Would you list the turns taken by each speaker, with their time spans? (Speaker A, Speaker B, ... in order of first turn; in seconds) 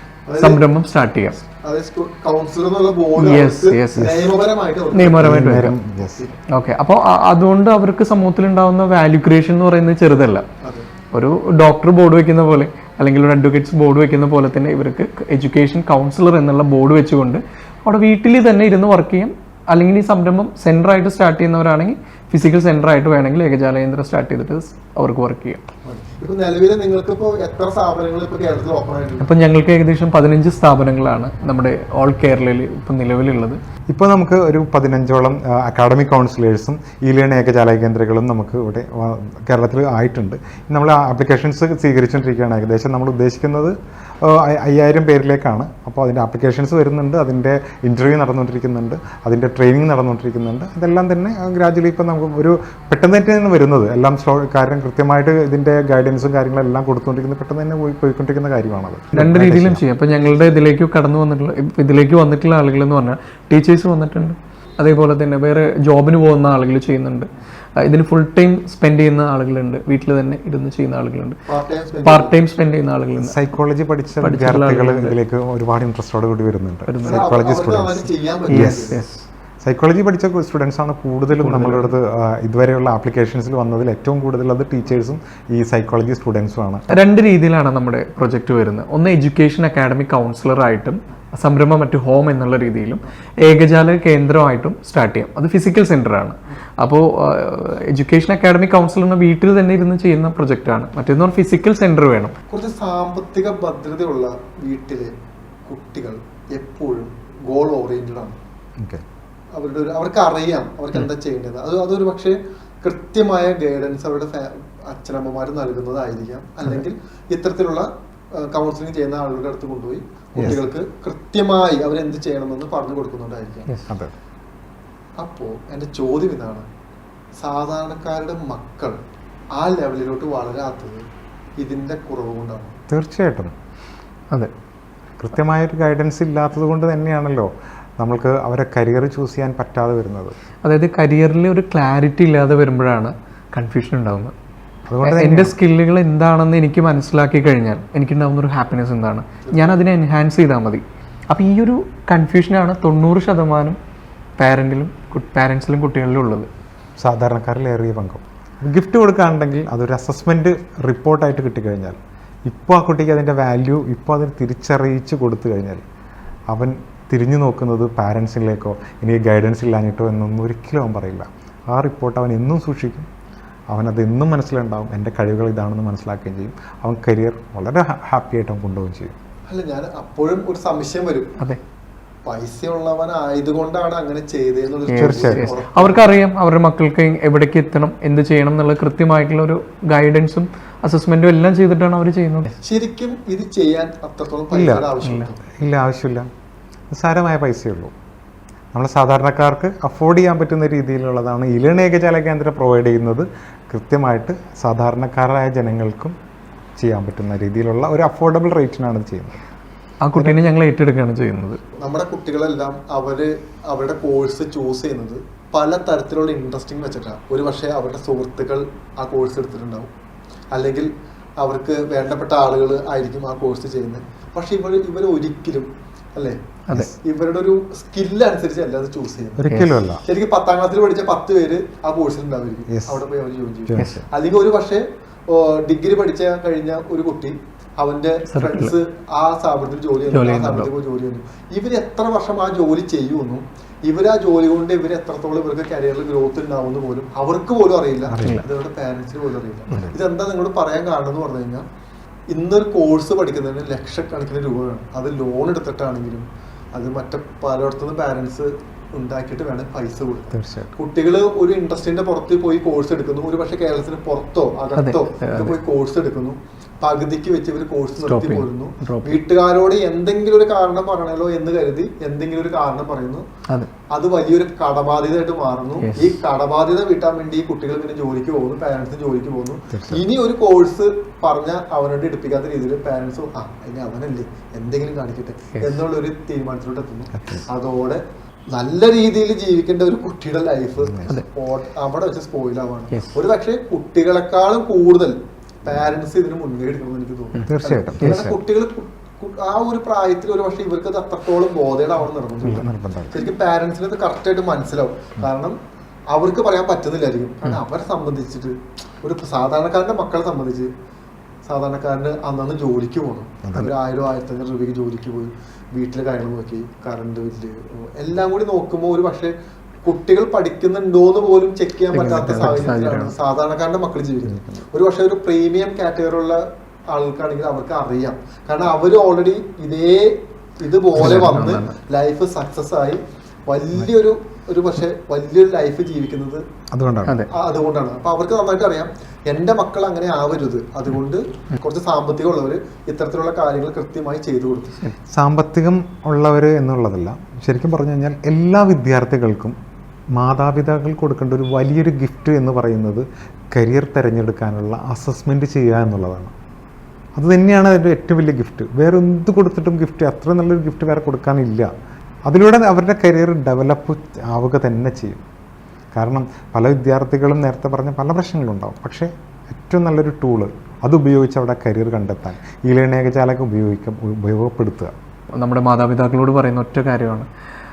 Speaker A: 0.3-0.6, 1.6-5.2, 6.1-6.4, 10.6-10.9, 25.8-29.3, 60.1-60.6, 71.5-72.4, 77.0-79.0, 102.5-105.1, 105.7-108.4, 109.5-123.8, 125.2-126.7, 127.4-129.0, 129.5-131.0, 131.6-132.8, 149.4-149.8, 179.5-181.3, 182.2-186.1, 192.6-195.4, 211.8-219.9, 220.5-229.5, 230.0-251.7, 252.3-273.2, 273.9-305.6, 306.1-310.7, 311.4-336.4, 337.3-344.9
Speaker B: 0.4-1.4, 3.1-4.3, 4.9-5.8, 6.5-10.4, 11.1-25.6, 29.2-33.6, 59.1-71.4, 72.0-73.4, 74.2-75.1, 76.9-77.3, 78.5-79.2, 81.4-81.9, 86.9-102.3, 140.6-144.3, 145.0-153.8, 154.4-156.5, 184.9-192.5, 210.0-211.6, 229.5-229.7, 233.8-234.0, 238.3-238.7, 240.1-240.7, 248.2-248.4, 264.8-265.6, 268.0-269.2, 275.8-276.1, 298.0-298.3, 321.9-323.1, 331.0-331.7, 375.3-377.3
Speaker C: 5.2-6.2, 33.9-59.8, 73.2-79.0, 79.6-87.0, 108.8-109.0, 123.9-124.1, 132.9-133.5, 135.2-140.3, 144.9-145.6, 157.0-165.8, 166.5-173.1, 173.7-179.2, 185.0-185.4, 194.5-196.3, 196.9-197.9, 198.7-206.2, 206.8-209.4, 229.4-230.0, 232.7-233.0, 233.7-234.1, 248.1-248.5, 249.7-250.0, 260.3-260.7, 279.7-280.0, 287.2-287.4, 290.8-291.1, 297.4-298.4, 302.4-303.2, 313.4-313.7, 324.3-324.6, 336.7-337.2, 345.1-349.6, 350.1-356.3, 357.1-361.7, 362.3-365.2, 365.9-374.9